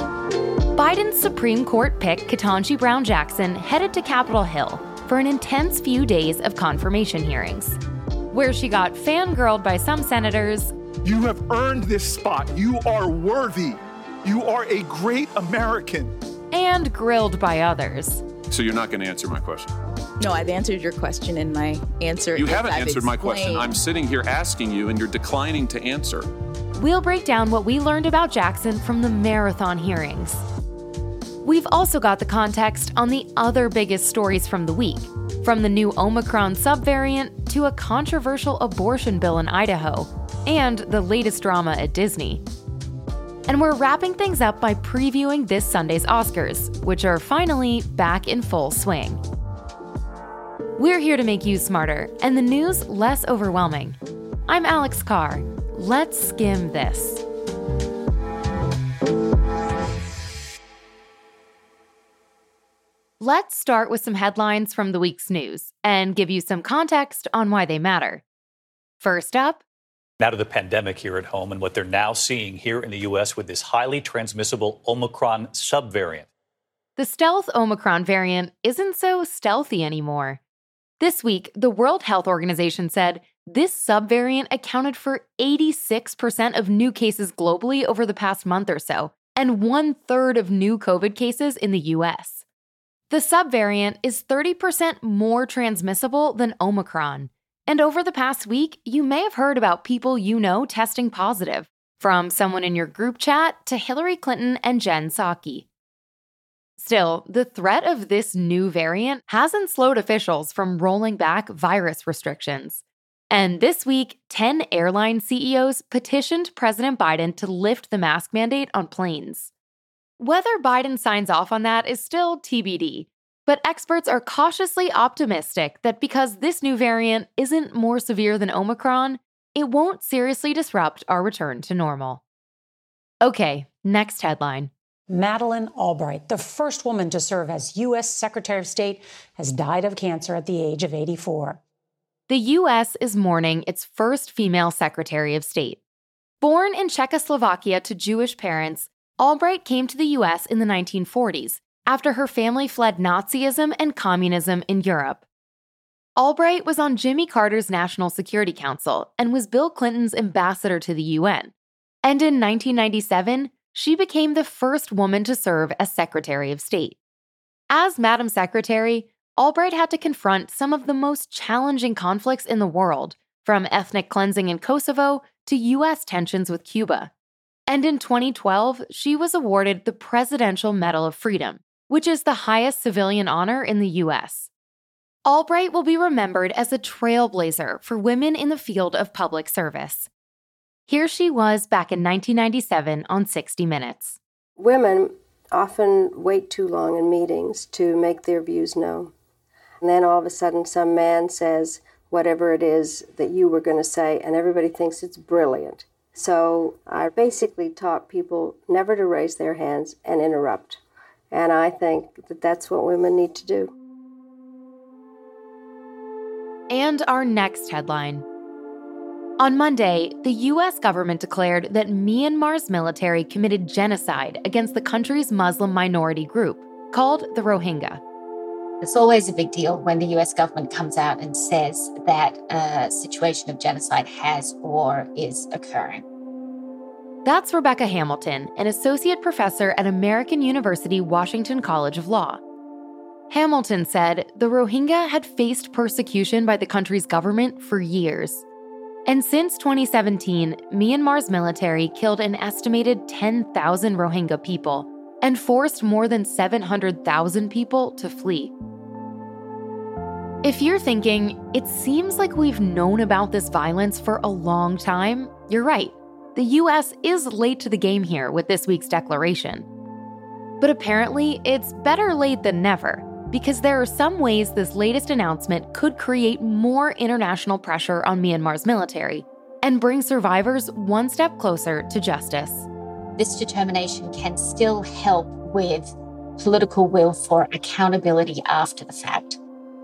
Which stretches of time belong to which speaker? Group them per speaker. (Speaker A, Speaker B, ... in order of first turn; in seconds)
Speaker A: 0.8-7.8, 8.3-10.7, 16.5-18.2, 26.8-30.4, 31.4-42.4, 43.5-49.2, 50.8-57.2, 63.2-68.2, 69.0-69.6, 77.0-80.4, 81.0-92.4, 93.1-105.7, 106.8-119.5, 120.2-132.2, 133.2-134.7, 142.3-145.8, 146.4-155.2, 156.2-161.5, 162.0-167.0, 167.7-177.1, 177.7-184.5, 185.2-190.1, 190.9-194.2, 216.7-218.2, 219.4-228.0, 237.2-242.4, 243.3-248.4, 249.1-258.5, 260.4-269.6, 270.6-282.7
Speaker B: 11.0-16.1
Speaker C: 18.5-19.7, 22.4-26.3
Speaker D: 20.2-23.8
Speaker E: 70.2-76.3
Speaker F: 135.1-141.6
Speaker G: 194.6-199.1, 199.8-210.8, 211.3-213.7
Speaker H: 228.8-236.0, 283.2-289.4